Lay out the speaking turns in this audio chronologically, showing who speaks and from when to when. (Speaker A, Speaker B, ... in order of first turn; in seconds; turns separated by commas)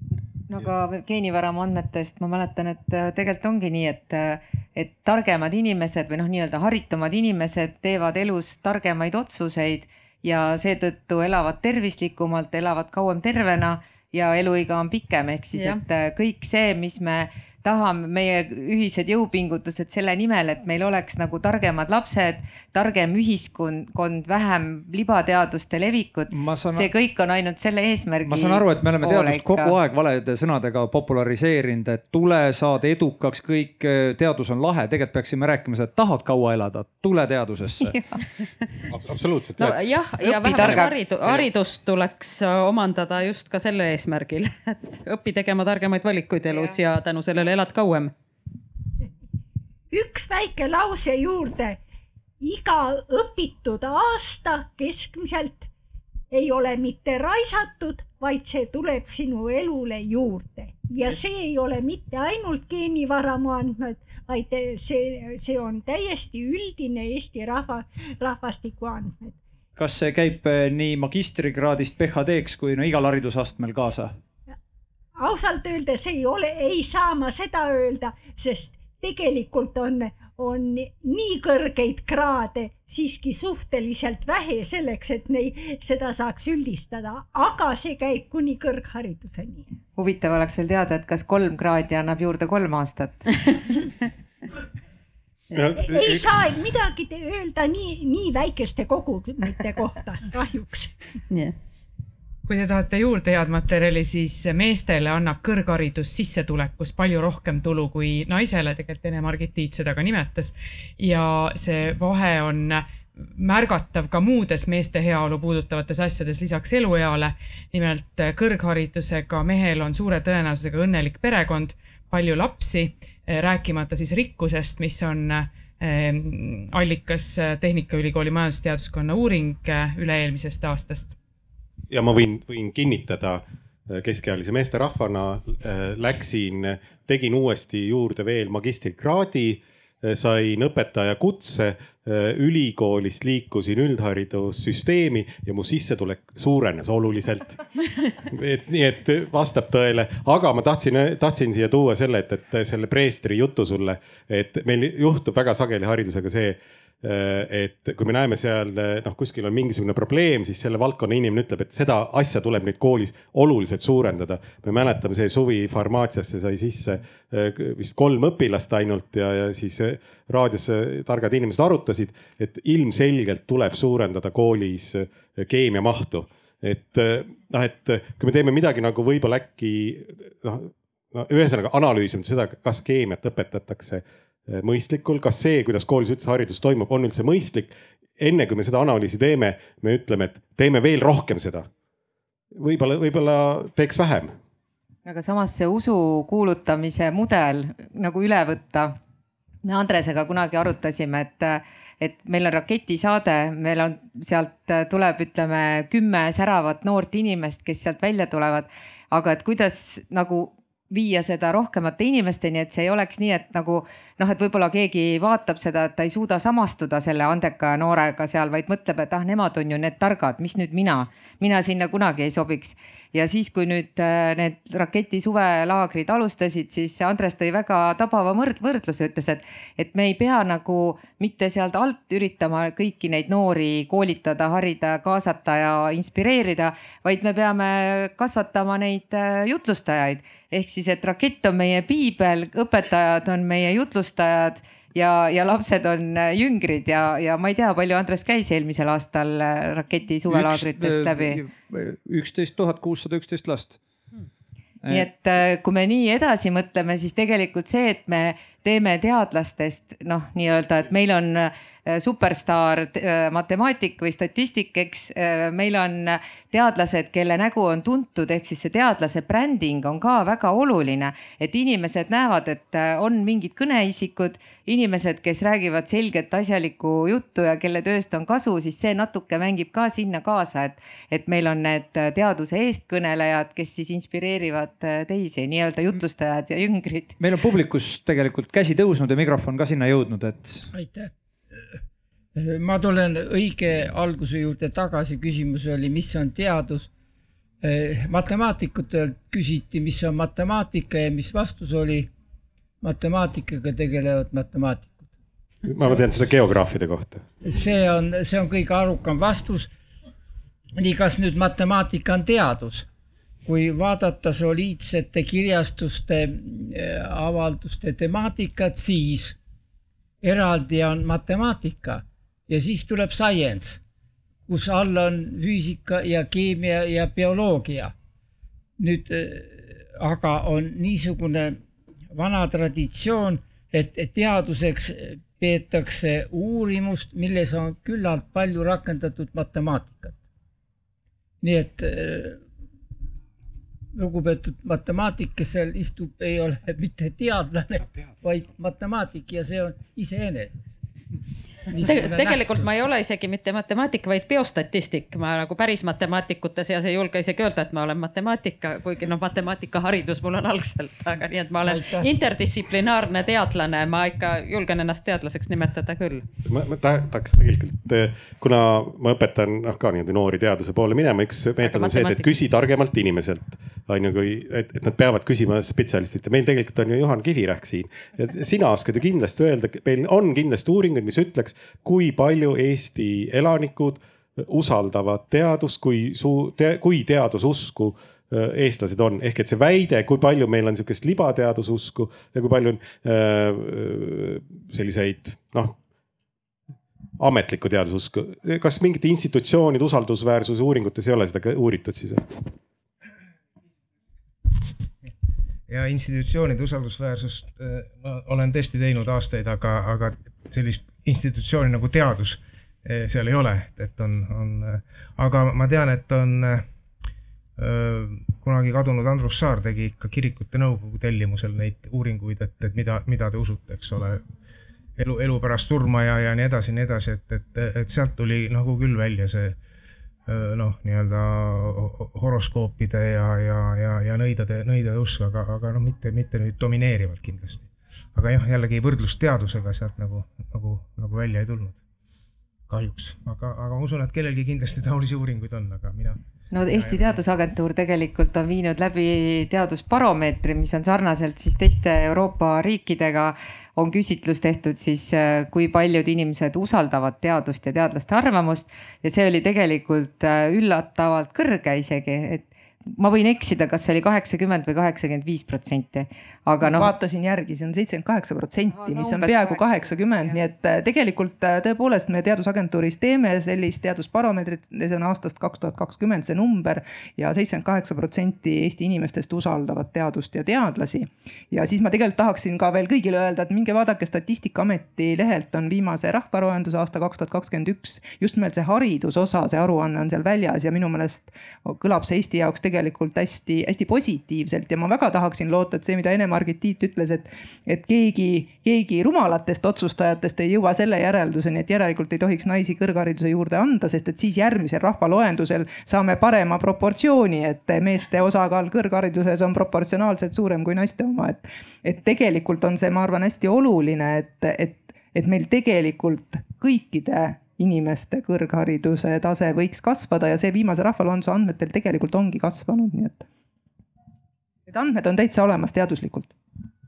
Speaker A: 0.5-29.8, Speaker B: 15.5-15.8, Speaker C: 26.3-26.9, Speaker C: 28.3-37.9, Speaker A: 37.8-38.2, Speaker D: 38.9-39.8, Speaker B: 39.6-48.1, Speaker A: 40.2-41.0, Speaker D: 40.5-41.5, Speaker A: 46.5-46.8, Speaker E: 49.9-51.8, Speaker E: 52.4-55.7, Speaker E: 56.3-69.4, Speaker C: 69.8-74.1, Speaker E: 75.2-89.7, Speaker A: 90.0-93.5, Speaker D: 95.5-96.5, Speaker E: 95.8-101.0, Speaker B: 101.3-101.5, Speaker F: 102.5-131.2, Speaker D: 131.9-191.7, Speaker D: 192.6-194.3, Speaker A: 195.1-199.0, Speaker A: 199.7-251.4, Speaker C: 250.3-253.8, Speaker A: 254.9-287.2, Speaker C: 287.2-290.7, Speaker G: 290.7-291.1, Speaker G: 292.4-296.9, Speaker G: 297.6-302.1, Speaker G: 302.8-305.1, Speaker D: 305.6-307.2, Speaker G: 307.4-309.7, Speaker G: 310.8-312.9, Speaker G: 313.5-319.4, Speaker G: 320.2-323.8, Speaker G: 324.5-327.9, Speaker G: 328.8-331.6, Speaker G: 332.1-340.2, Speaker G: 341.4-342.4, Speaker G: 343.9-350.8, Speaker G: 351.7-352.7, Speaker B: 351.8-366.3, Speaker G: 361.6-362.1, Speaker D: 366.5-395.8, Speaker B: 371.6-372.3, Speaker D: 397.2-402.5, Speaker H: 405.7-416.7, Speaker H: 417.6-424.2, Speaker H: 425.0-429.6, Speaker H: 430.3-441.8, Speaker H: 442.7-447.1, Speaker A: 446.5-466.9, Speaker I: 466.6-523.3, Speaker A: 468.8-470.4, Speaker I: 524.7-526.3